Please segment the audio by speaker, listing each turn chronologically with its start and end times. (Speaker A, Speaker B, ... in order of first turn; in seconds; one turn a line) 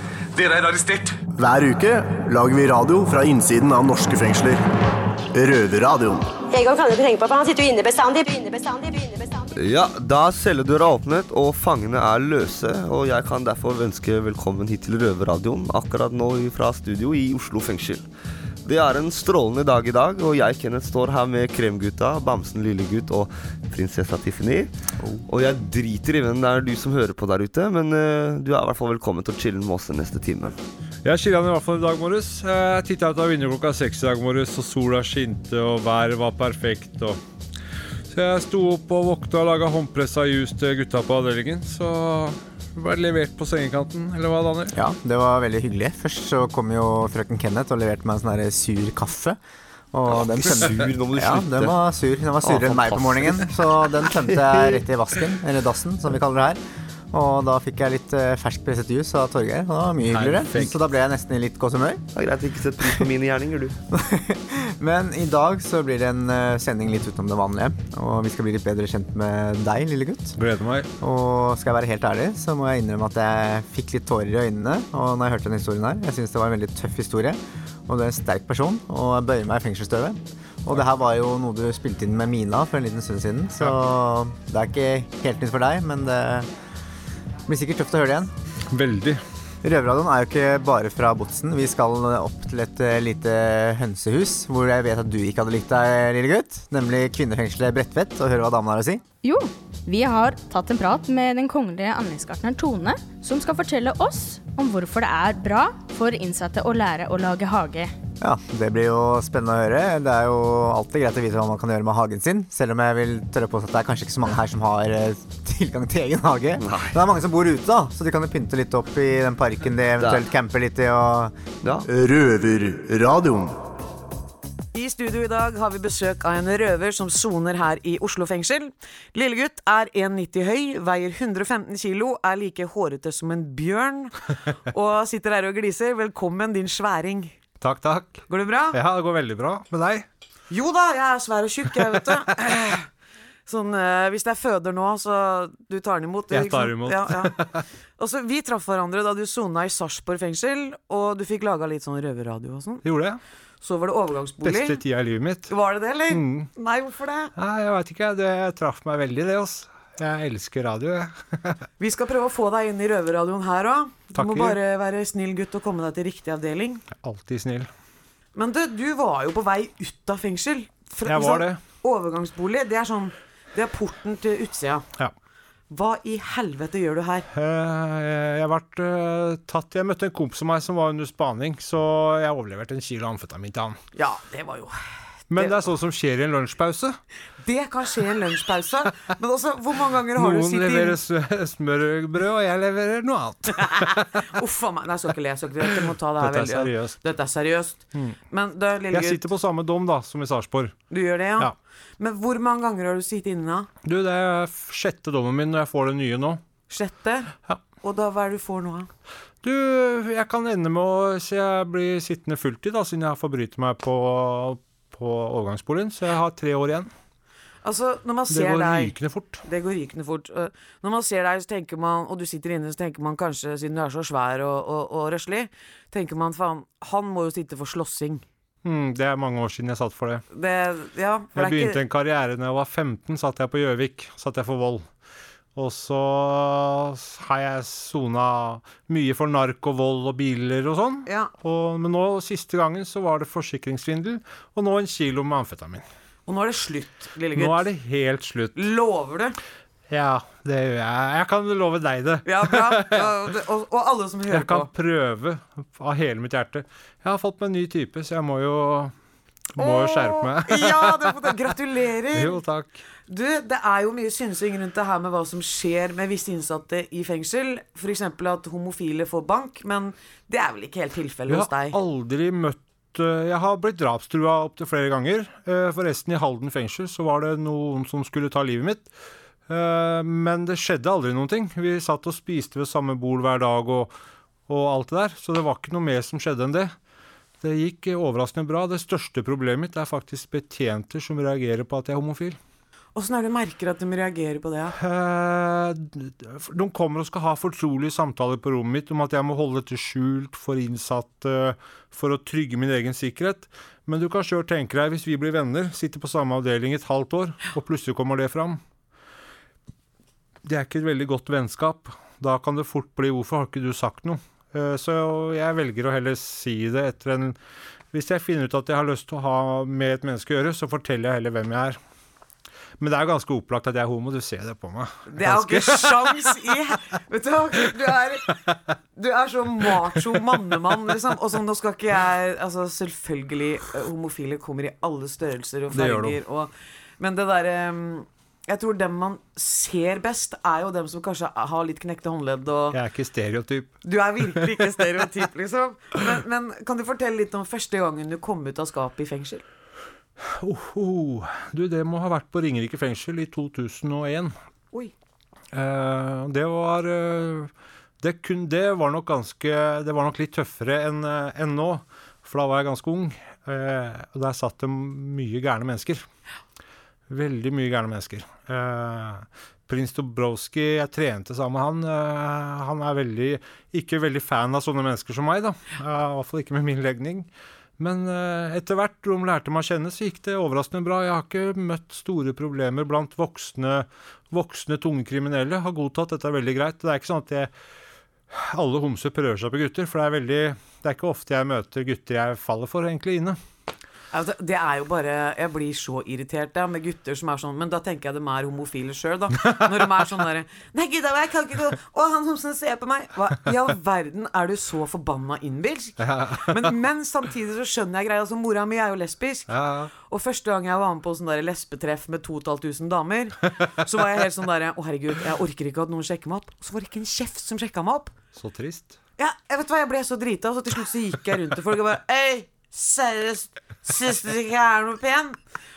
Speaker A: 1.4-4.6
Speaker A: 5.3-6.3
Speaker B: 6.5-9.5
Speaker C: 9.6-18.1
Speaker C: 18.6-24.7
Speaker C: 25.3-30.6
Speaker D: 31.0-37.2
Speaker D: 38.1-44.8
Speaker E: 44.7-49.4
Speaker E: 49.9-56.6
Speaker C: 50.1-51.8
Speaker C: 52.4-53.6
Speaker C: 54.3-54.8
Speaker E: 57.1-62.0
Speaker D: 60.1-60.8
Speaker C: 62.1-63.8
Speaker E: 63.9-70.4
Speaker D: 70.4-70.9
Speaker E: 71.0-86.5
Speaker E: 87.5-88.3
Speaker D: 88.7-89.2
Speaker E: 89.6-99.0
Speaker F: 99.2-107.9
Speaker E: 108.2-121.3
Speaker C: 116.6-117.0
Speaker C: 120.0-120.3
Speaker A: 121.9-123.5
Speaker G: 124.7-137.3
Speaker D: 137.6-140.1
Speaker G: 138.3-138.8
Speaker G: 140.5-142.8
Speaker G: 143.5-147.4
Speaker D: 146.3-147.6
Speaker G: 148.0-152.8
Speaker D: 152.8-153.2
Speaker G: 153.6-154.8
Speaker D: 154.4-155.5
Speaker G: 155.5-157.3
Speaker D: 156.1-156.5
Speaker D: 157.4-161.6
Speaker G: 161.8-166.8
Speaker D: 164.2-164.6
Speaker D: 167.0-167.7
Speaker G: 168.3-174.9
Speaker D: 171.1-171.6
Speaker G: 175.7-177.3
Speaker D: 177.3-183.8
Speaker G: 183.9-185.7
Speaker D: 185.3-187.0
Speaker G: 187.4-191.0
Speaker D: 190.2-194.2
Speaker G: 193.6-199.3
Speaker D: 196.2-197.0
Speaker D: 198.9-200.8
Speaker G: 200.9-203.7
Speaker D: 203.8-206.4
Speaker G: 206.7-208.9
Speaker D: 209.4-216.9
Speaker G: 217.6-228.2
Speaker D: 218.3-219.4
Speaker D: 228.6-230.2
Speaker G: 230.3-231.8
Speaker D: 231.4-234.9
Speaker D: 235.6-245.8
Speaker G: 241.1-241.3
Speaker G: 246.3-247.7
Speaker D: 247.3-248.7
Speaker G: 248.6-249.4
Speaker D: 249.9-253.1
Speaker G: 252.3-254.7
Speaker D: 254.3-258.9
Speaker D: 259.6-261.1
Speaker G: 259.6-262.4
Speaker D: 262.1-262.8
Speaker G: 263.1-271.8
Speaker D: 271.3-278.9
Speaker D: 279.5-283.9
Speaker D: 284.5-286.7
Speaker D: 287.4-292.4
Speaker G: 292.9-294.8
Speaker D: 294.8-308.6
Speaker D: 310.4-317.4
Speaker D: 317.9-321.8
Speaker D: 322.8-326.4
Speaker G: 325.1-328.4
Speaker G: 329.0-342.8
Speaker D: 335.7-336.2
Speaker D: 342.7-344.5
Speaker G: 343.8-349.4
Speaker D: 350.2-354.4
Speaker D: 355.5-366.0
Speaker D: 367.1-387.5
Speaker D: 388.3-393.4
Speaker G: 394.1-418.1
Speaker D: 406.0-406.7
Speaker D: 409.5-409.9
Speaker D: 418.3-419.0
Speaker G: 419.2-425.4